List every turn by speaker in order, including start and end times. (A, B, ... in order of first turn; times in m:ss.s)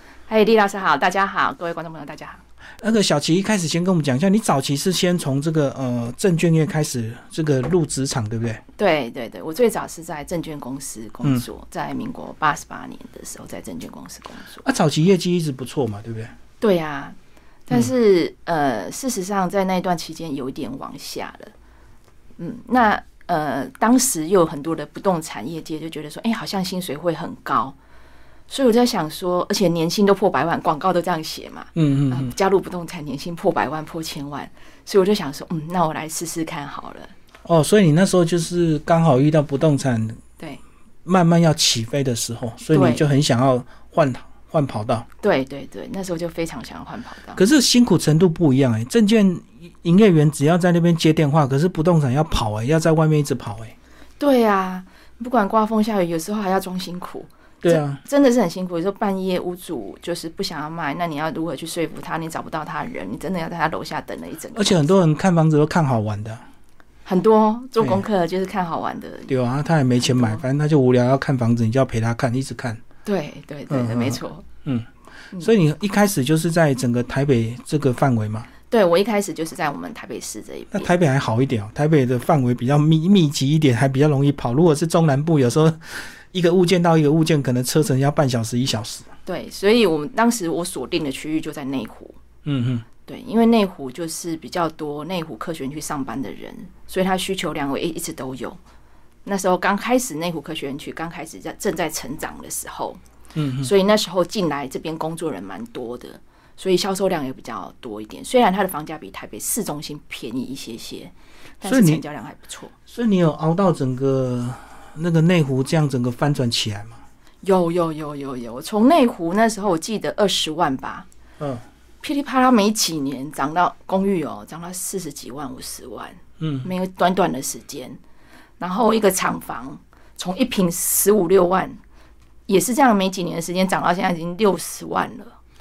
0:00.3-0:02.4 A
0:02.8-0:08.6 B
0:08.8-0:14.6 A
0:14.6-0:16.3 B
0:16.6-0:17.2 A
0:17.7-0:21.5 A
0:22.4-0:27.8 A
0:28.5-0:37.1 A
0:31.8-0:32.4 B
0:37.4-0:40.2 B
0:41.0-0:45.1 B
0:42.7-0:43.0 A
0:45.2-0:47.4 A
0:47.4-0:53.8 B
0:54.2-1:04.9 A
0:57.6-0:58.0 B
1:04.6-1:06.4 B
1:07.1-1:09.3 A
1:07.8-1:08.0 B
1:09.3-1:12.8 B
1:10.0-1:10.4 A
1:13.0-1:14.5 A
1:13.7-1:18.5 B
1:18.7-1:20.9 A
1:20.7-1:29.1 B
1:29.3-1:32.2 A
1:32.4-1:32.9 B
1:33.1-1:38.6 A
1:39.2-1:43.0 A
1:43.4-1:43.7 B
1:43.6-1:52.7 A
1:51.6-1:52.0 B
1:52.9-1:57.0 B
1:57.4-2:01.1 A
2:02.0-2:08.0 A
2:06.4-2:06.7 B
2:08.6-2:11.8 A
2:12.5-2:15.4 A